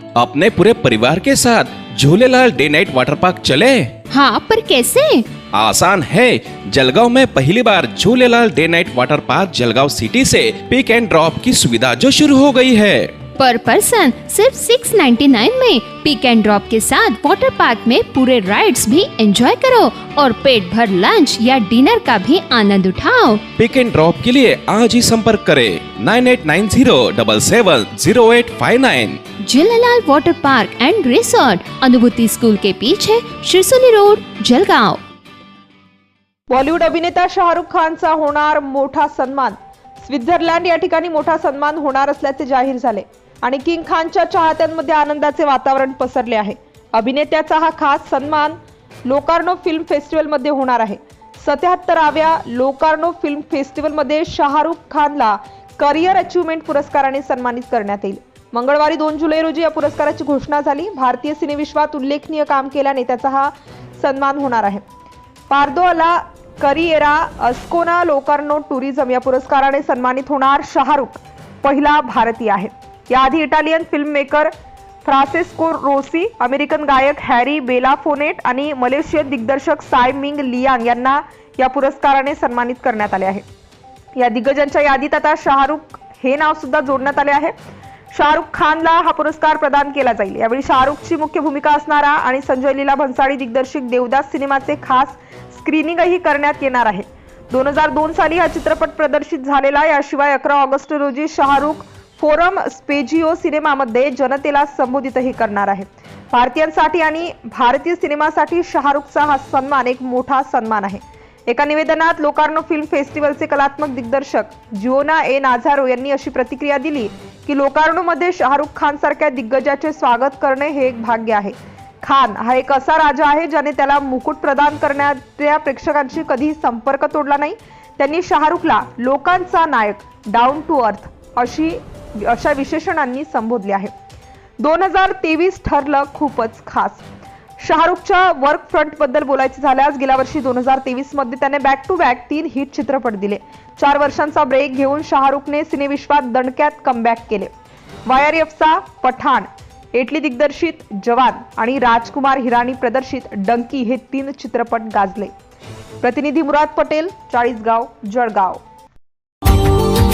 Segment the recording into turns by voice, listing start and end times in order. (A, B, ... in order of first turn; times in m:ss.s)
0:00.2-0:03.9 A
0:04.1-0:05.3 B
0:05.5-0:13.2 A
0:13.4-0:23.4 B
0:23.6-0:29.2 A
0:29.4-0:35.0 B
0:36.5-1:04.8 C
1:05.5-1:14.5 C
1:15.0-1:23.4 C
1:24.2-1:27.5 C
1:28.1-2:13.9 C
2:14.6-2:17.0 C
2:17.6-2:27.5 C
2:28.1-2:35.3 C
2:36.0-2:38.6 C